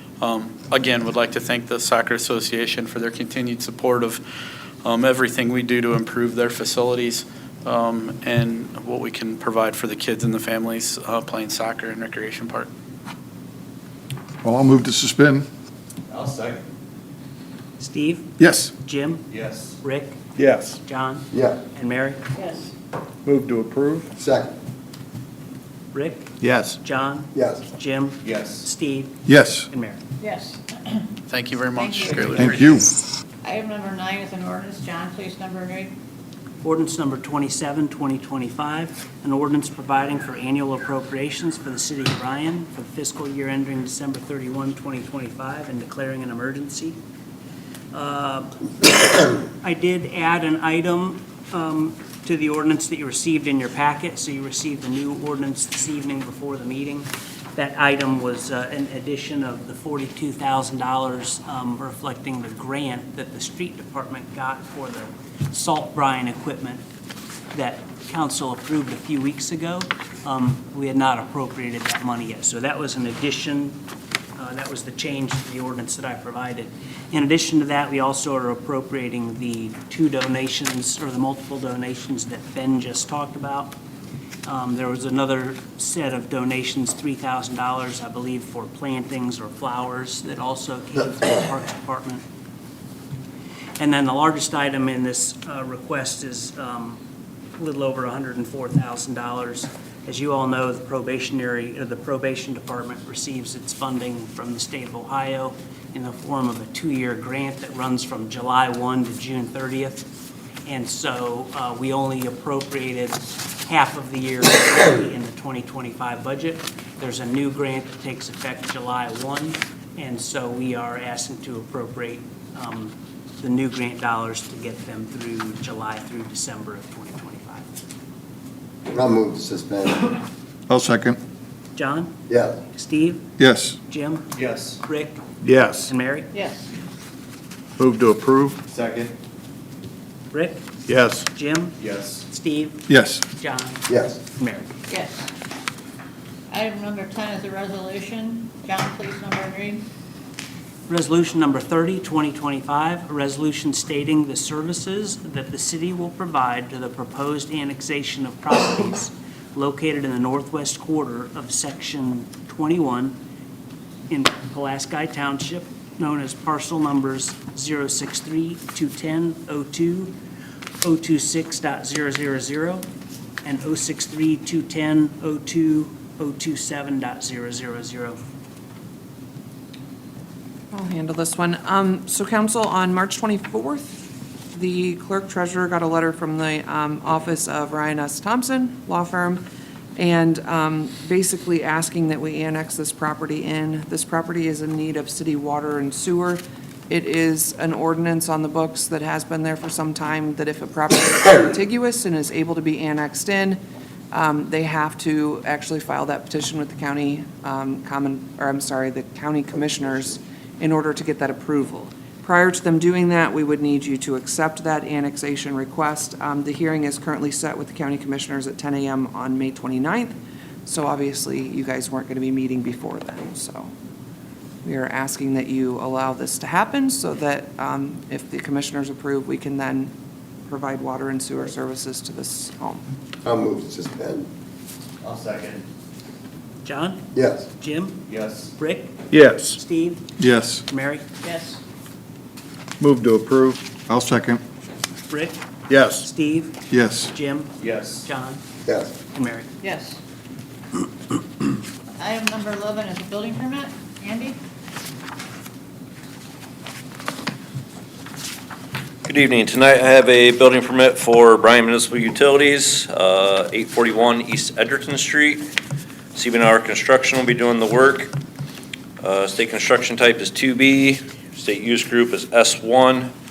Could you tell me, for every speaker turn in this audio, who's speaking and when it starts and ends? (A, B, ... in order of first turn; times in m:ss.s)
0:00.2-0:04.2 A
0:04.8-0:12.7 A
0:14.4-0:15.5 B
0:16.1-0:16.6 C
0:17.8-0:20.2 D
0:18.4-0:18.7 B
0:19.3-0:19.7 C
0:20.4-0:20.8 E
0:20.8-0:22.2 D
0:21.3-0:21.6 F
0:22.3-0:22.7 G
0:23.2-0:24.1 E
0:24.2-0:24.6 F
0:25.9-0:30.0 D
0:26.4-0:26.7 E
0:27.3-0:27.6 F
0:28.2-0:28.6 C
0:29.3-0:29.7 B
0:30.2-0:31.1 G
0:31.3-0:32.7 A
0:31.7-0:32.6 G
0:32.3-0:32.9 B
0:33.4-0:35.9 G
0:36.6-0:47.0 D
0:47.9-1:06.8 D
1:07.5-1:13.8 D
1:14.4-1:23.8 D
1:24.4-1:32.2 D
1:33.8-1:37.0 D
1:37.6-1:50.0 D
1:50.7-2:07.7 D
2:08.9-2:10.2 F
2:10.7-2:11.2 B
2:11.7-2:12.1 D
2:12.3-2:12.6 F
2:12.7-2:13.2 D
2:13.4-2:13.8 B
2:13.9-2:15.2 D
2:14.3-2:14.8 C
2:15.4-2:15.9 E
2:15.8-2:16.3 D
2:16.3-2:16.7 G
2:17.8-2:18.6 E
2:18.7-2:19.2 C
2:20.3-2:20.7 D
2:20.9-2:21.2 E
2:21.3-2:23.9 D
2:21.8-2:22.2 C
2:22.9-2:23.2 B
2:23.9-2:24.2 F
2:24.4-2:24.7 D
2:24.9-2:25.3 G
2:26.5-2:29.9 G
2:30.9-2:43.2 D
2:44.1-2:50.2 D
2:50.8-2:52.8 D
2:53.4-2:58.2 D
3:00.7-3:09.4 H
3:10.0-3:23.6 H
3:24.1-3:43.7 H
3:29.6-3:30.1 F
3:44.6-3:49.9 H
3:50.5-3:52.8 H
3:53.2-3:54.3 F
3:55.0-3:55.6 C
3:56.6-3:58.0 D
3:57.1-3:57.5 F
3:58.1-3:58.5 C
3:58.5-3:59.0 D
3:59.1-3:59.6 E
3:59.5-4:00.0 D
4:00.2-4:00.6 B
4:00.7-4:01.1 D
4:01.2-4:01.6 G
4:02.8-4:03.6 E
4:03.9-4:04.4 B
4:05.1-4:05.4 D
4:05.7-4:06.1 E
4:05.9-4:08.4 D
4:06.7-4:07.1 B
4:07.6-4:08.1 C
4:08.6-4:08.9 F
4:09.1-4:09.5 D
4:09.6-4:10.0 G
4:12.0-4:14.4 G
4:19.0-4:25.4 I
4:26.1-4:28.1 I
4:29.0-4:33.1 I